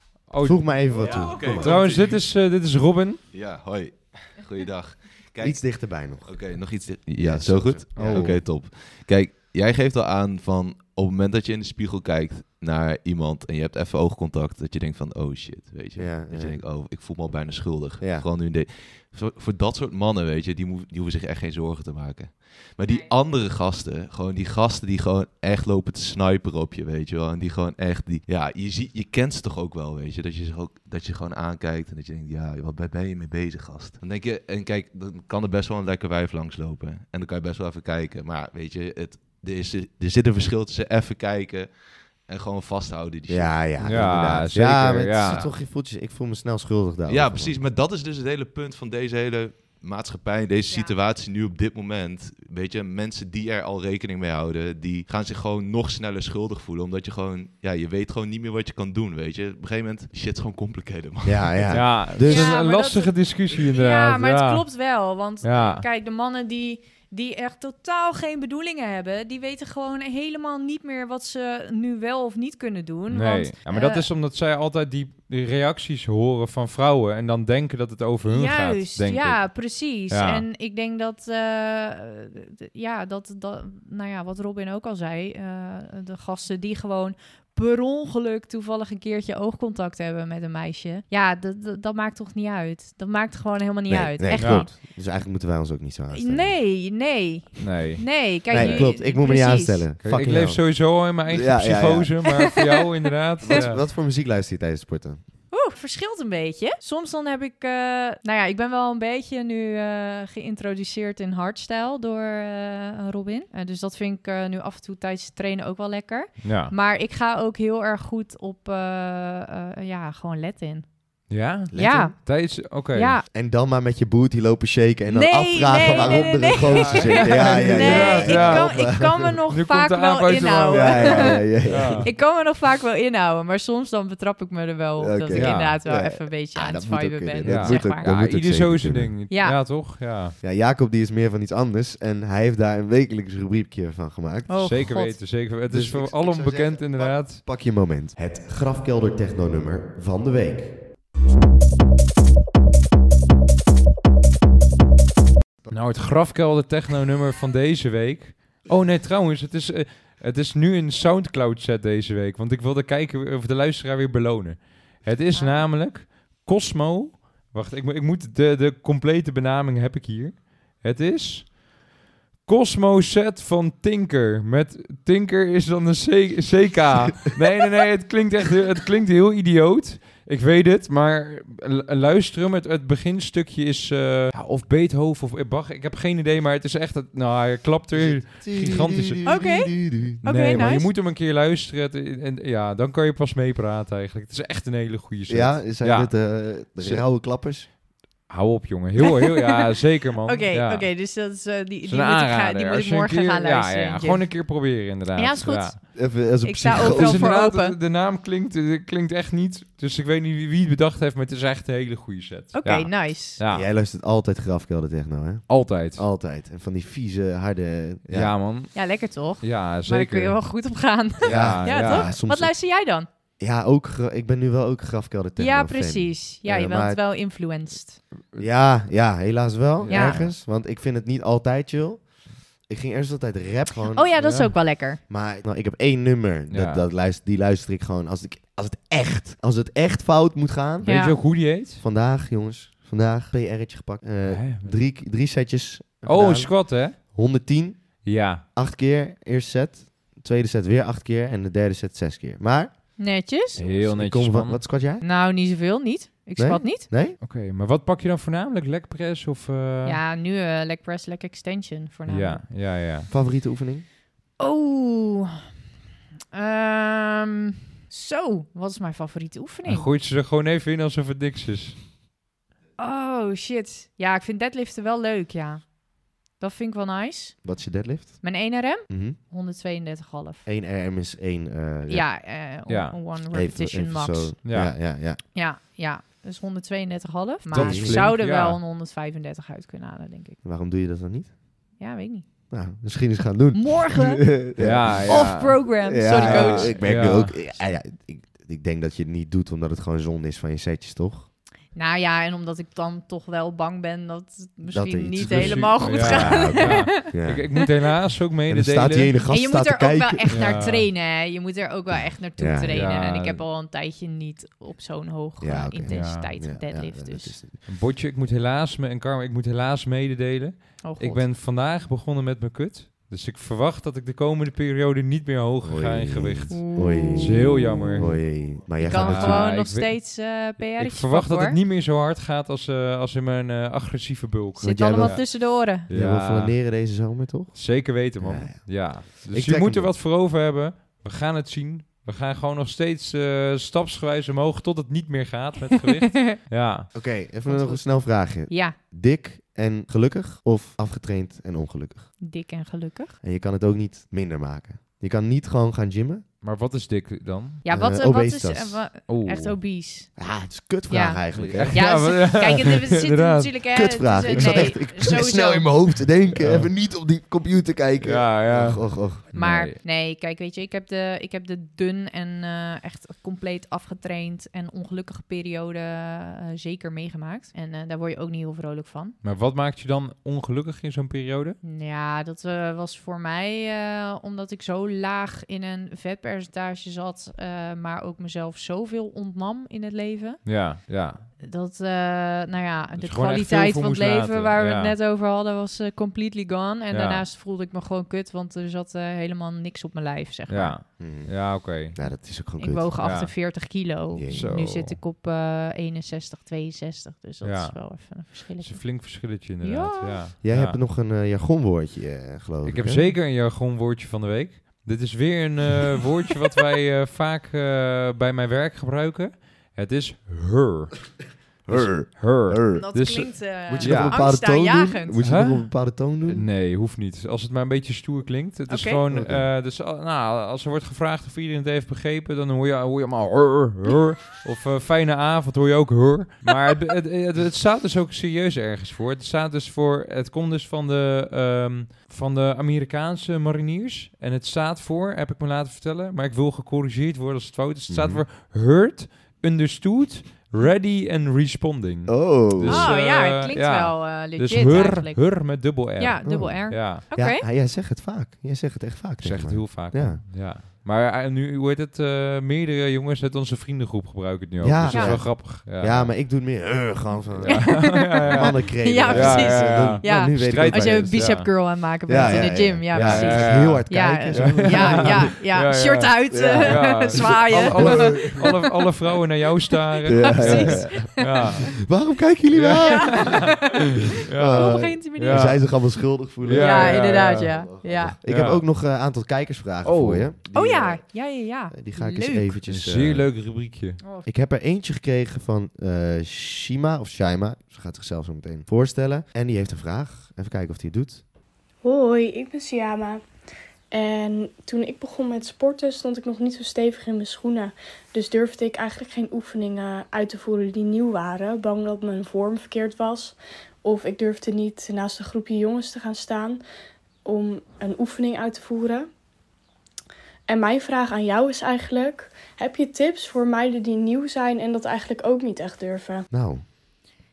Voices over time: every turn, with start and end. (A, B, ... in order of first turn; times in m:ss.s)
0:00.2-0:03.2 A
0:00.4-0:01.7 B
0:00.9-0:02.2 C
0:03.3-0:44.2 C
0:05.4-0:08.4 B
0:08.0-0:08.3 A
0:15.9-0:16.7 B
0:18.0-0:18.3 B
0:22.8-0:23.1 D
0:43.3-0:47.6 B
0:43.8-0:45.4 A
0:45.2-0:45.6 C
0:47.0-1:01.8 C
0:50.7-0:50.9 D
1:01.2-1:02.5 B
1:01.7-1:04.7 A
1:02.2-1:14.1 D
1:05.4-1:05.8 A
1:13.1-1:19.6 A
1:18.3-1:34.7 D
1:20.1-1:20.5 A
1:33.9-1:36.6 B
1:34.3-1:34.7 A
1:36.1-1:39.8 D
1:37.6-1:39.0 A
1:38.5-1:42.4 B
1:40.0-1:43.8 A
1:43.4-1:45.2 B
1:45.5-2:01.2 D
1:56.4-1:56.7 A
2:01.3-2:03.2 A
2:01.7-2:02.1 B
2:01.7-2:03.2 D
2:03.3-2:09.4 B
2:05.1-2:18.1 D
2:05.8-2:12.1 A
2:10.7-2:12.1 B
2:15.0-2:19.1 B
2:15.3-2:15.8 A
2:17.4-2:20.4 A
2:19.3-2:19.6 D
2:20.4-2:24.6 B
2:24.5-2:25.2 D
2:24.6-2:27.4 A
2:25.7-2:30.7 B
2:35.7-2:51.6 A
2:45.3-2:45.7 D
2:52.4-3:17.0 A
3:07.9-3:10.2 B
3:09.2-3:10.9 D
3:15.3-3:17.7 B
3:18.3-3:20.9 A
3:19.0-3:19.6 D
3:20.2-3:27.8 D
3:21.8-3:25.8 A
3:25.9-3:27.3 B
3:26.7-3:33.7 A
3:32.5-3:33.4 D
3:33.5-3:38.3 B
3:35.5-3:36.0 A
3:38.1-3:40.4 A
3:38.7-3:43.1 D
3:41.2-3:42.1 A
3:41.2-3:42.5 B
3:43.4-3:47.0 B
3:45.4-3:48.0 D
3:48.4-3:54.2 B
3:49.8-3:50.3 A
3:49.9-3:50.3 D
3:53.9-3:55.0 D
3:54.2-3:54.5 A
3:54.8-4:12.7 B
3:56.5-3:56.8 A
4:00.8-4:01.8 A
4:00.8-4:01.2 D
4:04.2-4:04.8 A
4:06.0-4:07.0 A
4:08.0-4:08.4 A
4:13.0-4:13.6 D
4:13.6-4:14.6 A
4:13.6-4:15.0 B
4:15.0-4:16.9 D
4:16.4-4:17.2 B
4:17.2-4:20.0 A
4:19.8-4:22.4 D
4:22.1-4:23.1 A
4:23.1-4:23.8 B
4:24.4-4:25.4 D
4:26.3-4:29.9 D
4:29.6-4:31.8 A
4:32.8-4:37.7 D
4:37.4-4:39.2 B
4:38.2-4:40.4 D
4:40.4-4:42.1 B
4:41.9-4:44.4 D
4:42.7-4:43.0 A
4:43.3-4:45.2 B
4:44.4-4:44.8 A
4:45.3-4:50.4 D
4:47.5-4:48.6 A
4:47.5-4:48.2 B
4:50.4-4:51.3 B
4:51.8-4:52.2 D
4:52.5-5:01.3 B
4:53.5-4:54.4 D
4:54.6-4:57.5 A
4:55.0-4:56.8 D
5:01.7-5:07.6 D
5:04.7-5:07.5 B
5:05.3-5:09.2 A
5:08.5-5:10.6 B
5:09.3-5:17.4 D
5:10.3-5:10.9 A
5:12.4-5:12.8 B
5:12.7-5:13.4 A
5:15.4-5:17.6 B
5:15.9-5:16.3 A
5:17.6-5:36.6 A
5:20.8-5:21.3 D
5:25.6-5:29.5 B
5:26.5-5:28.2 D
5:28.8-5:31.6 D
5:34.6-5:39.9 B
5:34.6-5:35.9 D
5:37.5-5:46.9 A
5:46.9-5:52.2 B
5:47.4-5:48.8 D
5:52.2-5:53.2 D
5:53.2-5:56.2 B
5:56.4-5:57.6 A
5:57.6-6:00.2 D
5:57.7-5:58.9 B
5:59.1-5:59.6 A
6:00.2-6:02.2 B
6:00.9-6:05.9 D
6:01.3-6:03.5 A
6:03.7-6:09.2 B
6:04.2-6:04.8 A
6:06.3-6:06.7 A
6:08.0-6:09.8 A
6:09.3-6:19.2 D
6:19.2-6:21.6 A
6:21.6-6:30.7 D
6:30.4-6:31.3 A
6:31.4-6:40.8 D
6:33.0-6:35.0 A
6:36.9-6:37.2 A
6:40.5-6:42.0 A
6:41.0-6:42.9 B
6:42.6-6:50.3 D
6:43.0-6:43.3 A
6:44.1-6:44.5 B
6:44.3-6:45.0 A
6:47.4-6:50.8 A
6:50.4-6:53.1 B
6:52.6-7:04.2 A
7:01.6-7:06.5 B
7:02.7-7:05.2 D
7:05.2-7:37.0 A
7:08.7-7:09.0 D
7:09.1-7:09.5 B
7:27.9-7:28.2 B
7:32.0-7:32.9 B
7:32.6-7:37.4 D
7:36.2-7:40.2 B
7:39.2-7:46.1 A
7:44.6-7:55.3 B
7:44.9-7:45.2 D
7:47.4-7:51.6 A
7:47.5-7:58.9 D
7:52.1-8:01.8 A
7:56.3-7:58.6 B
7:59.7-8:01.6 D
8:00.1-8:01.3 B
8:01.8-8:03.7 B
8:02.5-8:05.8 A
8:02.7-8:03.6 D
8:04.3-8:13.6 B
8:04.4-8:05.8 D
8:06.4-8:08.6 A
8:06.6-8:08.2 D
8:09.8-8:10.3 A
8:10.5-8:12.6 D
8:12.7-8:14.0 A
8:14.0-8:14.3 D
8:14.2-8:21.2 B
8:21.8-8:23.2 E
8:23.9-8:36.6 E
8:37.2-8:39.1 E
8:40.5-8:46.2 E
8:46.3-8:46.6 B